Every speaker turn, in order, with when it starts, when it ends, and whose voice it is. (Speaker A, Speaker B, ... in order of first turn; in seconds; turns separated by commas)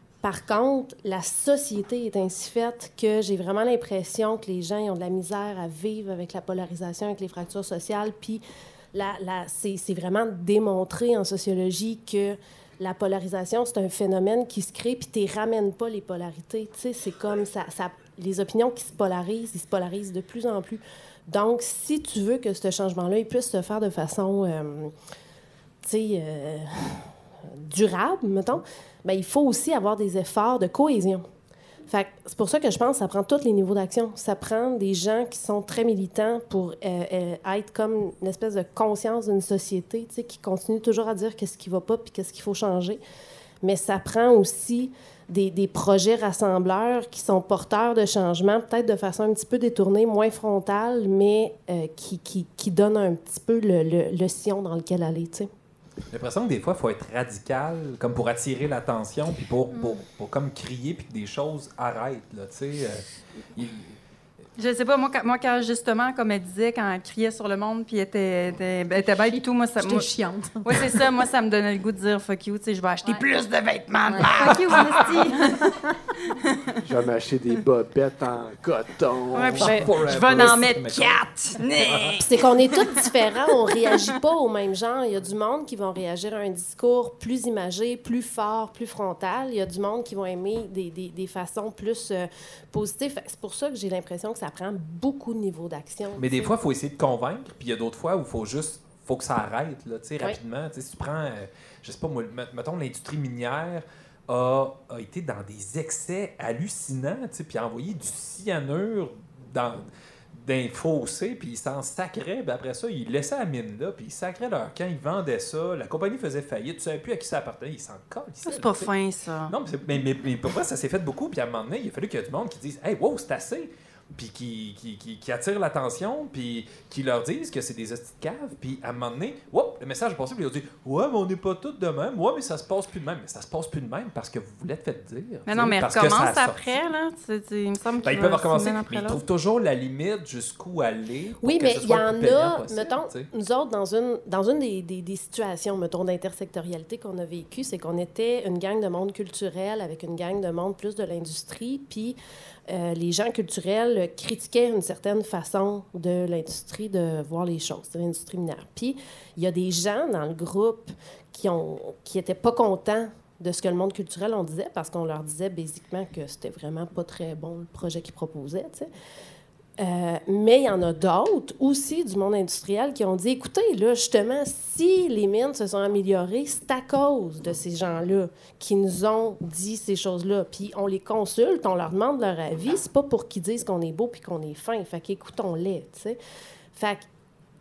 Speaker A: 0.2-24.9, Speaker A: 25.8-27.1, Speaker A: 27.7-31.2, Speaker A: 31.9-43.0, Speaker A: 43.6-55.5, Speaker B: 56.1-64.0, Speaker C: 64.6-70.1, Speaker D: 69.2-71.0, Speaker C: 70.6-75.5, Speaker D: 74.1-75.9, Speaker E: 76.8-79.8, Speaker C: 79.3-82.8, Speaker B: 79.5-81.2, Speaker B: 81.7-82.2, Speaker A: 82.2-96.5, Speaker B: 96.2-118.9, Speaker C: 118.5-119.5, Speaker B: 119.5-136.8, Speaker C: 135.4-139.2, Speaker B: 138.0-143.3, Speaker A: 141.4-152.2, Speaker A: 152.7-168.9, Speaker A: 169.8-186.2, Speaker A: 186.7-187.0